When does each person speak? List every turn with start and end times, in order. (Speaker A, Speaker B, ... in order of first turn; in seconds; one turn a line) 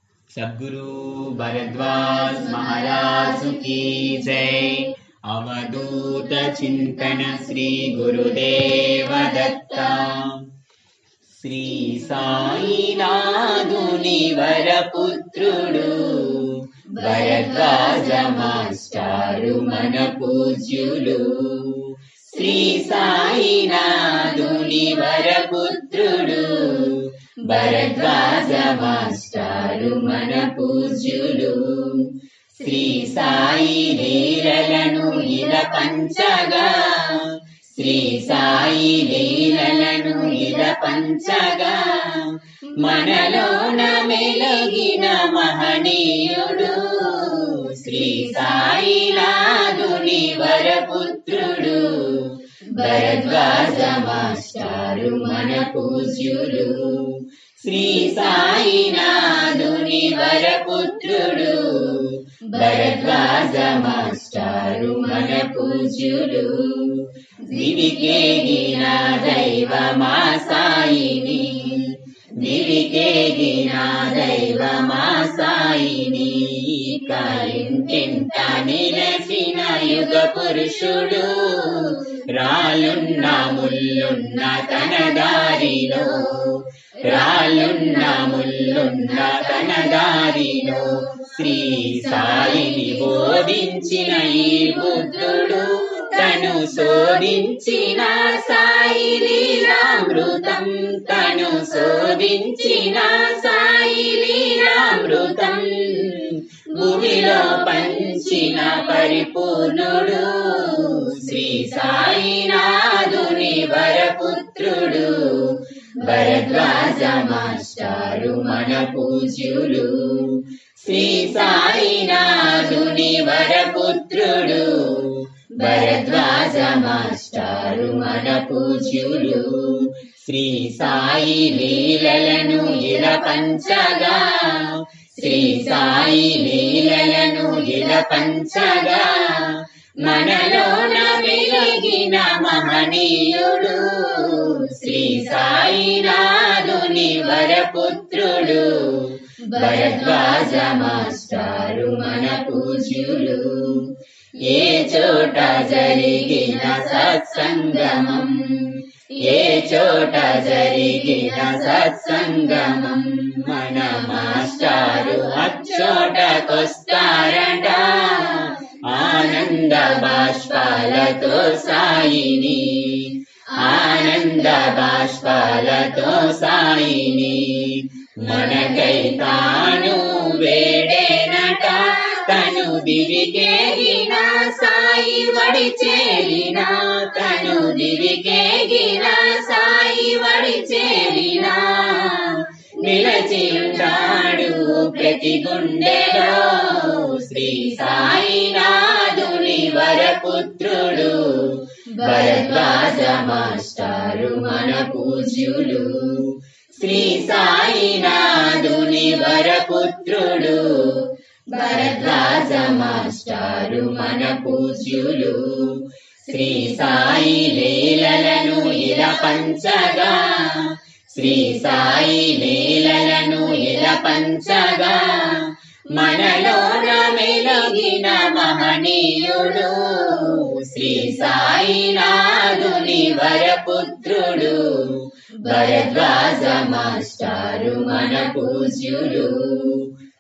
Speaker A: 0.3-10.4
Speaker A: 11.3-239.9